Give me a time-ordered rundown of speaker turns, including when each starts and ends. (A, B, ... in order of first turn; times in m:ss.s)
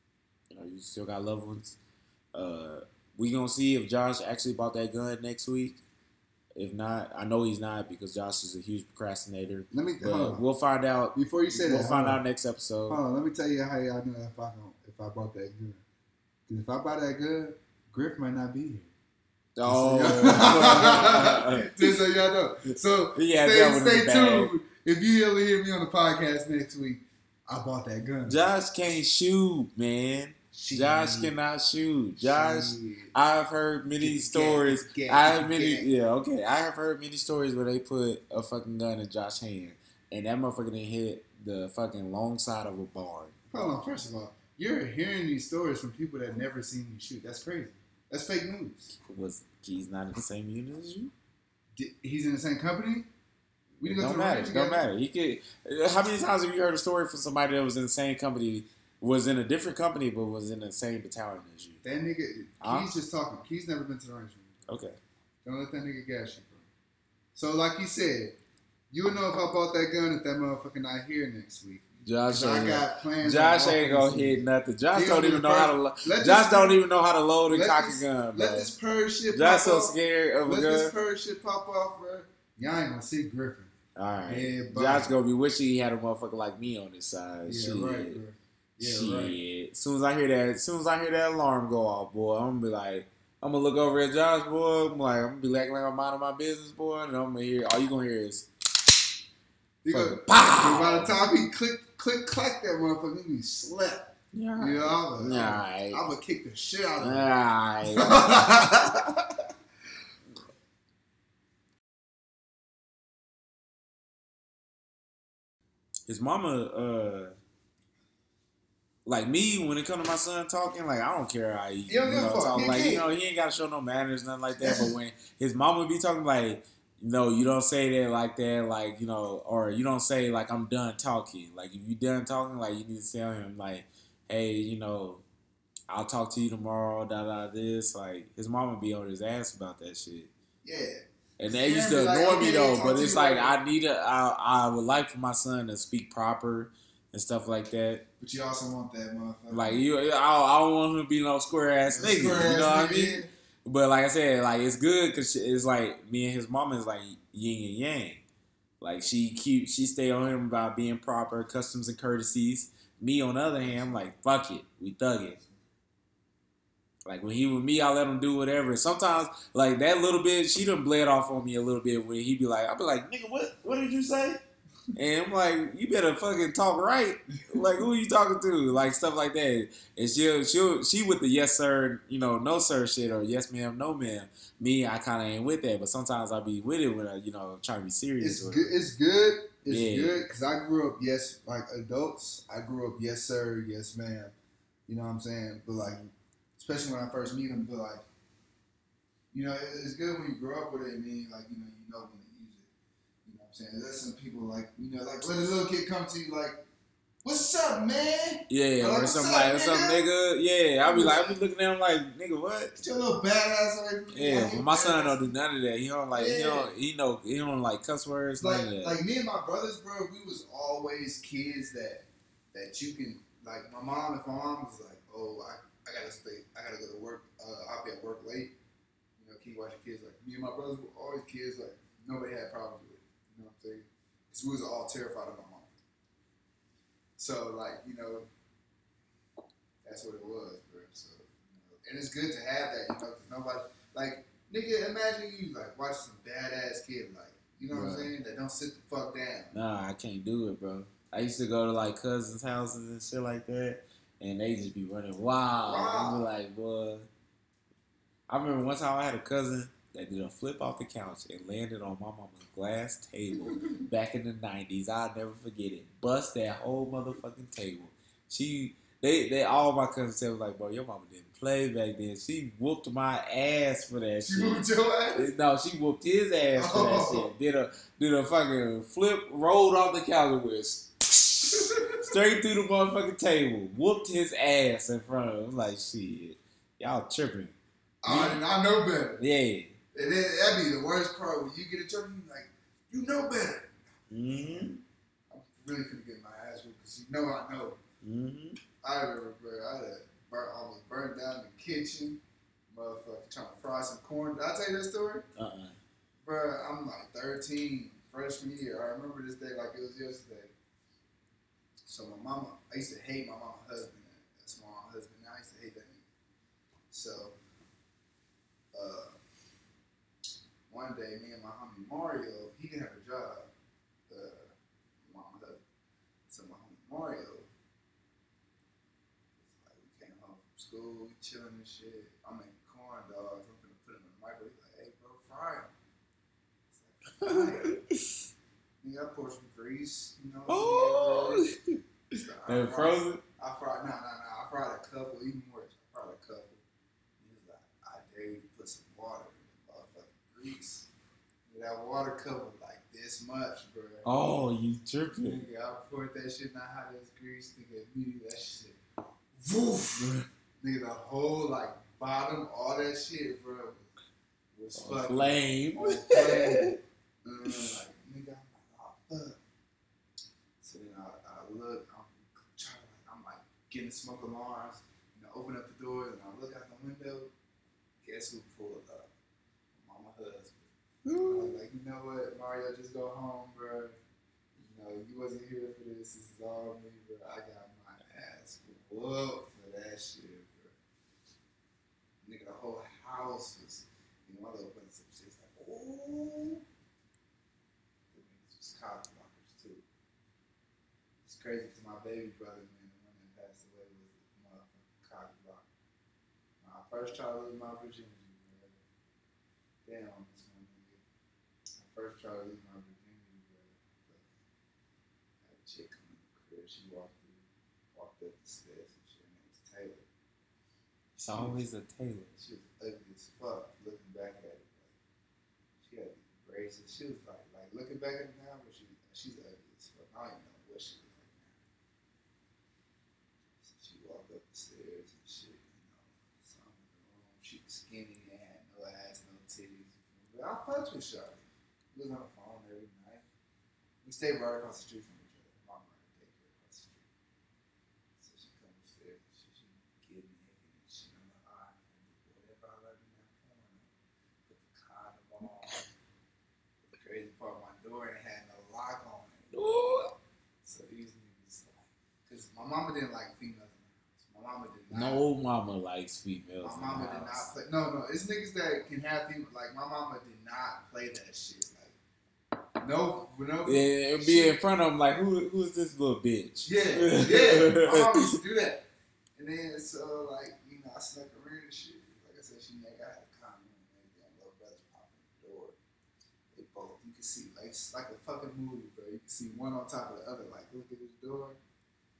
0:00.5-0:01.8 A
0:02.3-0:05.8 A
0:06.5-0:13.0 A
0:09.7-0:10.4 B
0:11.1-0:12.2 B
0:12.9-0:15.8 B
0:16.5-0:18.9 B
0:19.6-0:21.9 A
0:19.6-0:28.5 B
0:23.1-0:24.5 A
0:28.3-0:43.3 A
0:30.5-0:31.3 B
0:32.2-0:33.1 B
0:34.0-0:35.9 B
0:43.5-0:49.0 B
0:49.0-0:51.1 A
0:51.7-0:53.1 B
0:53.8-1:01.8 A
0:53.8-0:54.8 B
1:01.8-1:04.7 B
1:02.6-1:02.9 A
1:04.7-1:05.0 A
1:05.4-1:06.7 B
1:07.3-1:08.4 B
1:08.9-1:16.8 B
1:12.0-1:18.7 A
1:17.5-1:23.7 B
1:19.3-1:20.9 A
1:23.9-1:28.2 A
1:24.2-1:25.1 B
1:27.5-1:29.4 B
1:28.8-1:38.5 A
1:39.8-1:47.3 B
1:39.9-1:41.1 A
1:44.3-1:46.0 A
1:47.0-1:48.2 A
1:47.8-1:49.4 B
1:56.1-1:57.4 A
1:59.0-2:15.2 A
2:01.9-2:03.0 B
2:04.6-2:04.9 B
2:15.9-2:20.3 A
2:20.6-2:23.6 B
2:21.4-2:28.0 A
2:28.2-2:29.8 B
2:29.5-2:38.2 A
2:31.9-2:33.3 B
2:38.8-2:45.4 A
2:47.0-2:54.4 A
2:54.9-3:08.8 A
3:08.2-3:14.3 B
3:09.7-3:10.2 A
3:14.9-3:18.0 B
3:19.3-3:22.7 B
3:23.2-3:26.6 B
3:27.2-3:30.1 B
3:28.5-3:32.7 A
3:30.8-3:31.4 B
3:32.8-3:35.2 B
3:34.1-3:39.0 A
3:36.1-3:36.7 B
3:38.4-3:48.5 B
3:49.2-3:55.7 B
3:57.2-3:58.3 B
3:59.8-4:09.5 B
4:07.7-4:08.1 A
4:09.5-4:17.1 A
4:15.6-4:16.2 B
4:18.3-4:48.4 A
4:34.2-4:35.3 B
4:36.6-4:37.3 B
4:41.5-4:42.0 B
4:48.0-4:49.2 B
4:49.2-4:49.8 A
4:49.9-4:53.7 B
4:54.1-4:54.8 A
4:54.2-4:54.7 B
4:55.3-4:57.8 B
4:58.0-4:58.6 A
4:58.8-5:05.3 B
5:05.4-5:05.8 A
5:06.2-5:10.5 B
5:11.8-5:16.1 B
5:16.9-5:17.4 B
5:18.7-5:19.2 B
5:20.7-5:23.5 B
5:24.1-5:24.5 B
5:25.0-5:25.6 B
5:26.3-5:27.5 B
5:29.4-5:35.7 B
5:36.7-5:37.8 B
5:37.2-5:38.2 A
5:38.8-5:41.5 B
5:40.5-5:41.8 A
5:42.2-5:46.6 B
5:42.4-5:43.2 A
5:47.2-5:50.9 B
5:51.5-5:54.2 B
5:54.0-5:55.4 A
5:55.2-5:58.8 B
5:59.4-6:03.9 B
6:04.6-6:09.4 B
6:04.7-6:06.8 A
6:07.4-6:07.8 A
6:10.6-6:17.3 B
6:18.0-6:19.1 B
6:19.8-6:20.7 B
6:21.0-6:21.6 A
6:21.2-6:24.0 B
6:24.6-6:30.7 B
6:32.2-6:36.6 B
6:38.1-6:39.8 B
6:41.2-6:45.7 B
6:46.6-6:48.8 B
6:49.8-6:51.0 B
6:51.8-6:54.3 B
6:55.4-7:00.1 B
7:01.2-7:02.3 A
7:01.3-7:01.6 B
7:02.3-7:05.0 B
7:05.8-7:11.6 B
7:13.6-7:23.2 B
7:24.0-7:27.1 B
7:28.2-7:33.9 B
7:34.4-7:35.9 B
7:36.9-7:40.0 B
7:39.5-7:40.1 A
7:40.6-7:45.2 B
7:44.9-7:47.5 A
7:46.6-7:52.0 B
7:52.8-7:54.6 B
7:53.6-7:58.3 A
7:56.6-7:58.8 B
7:59.4-8:05.8 B
8:06.5-8:11.6 B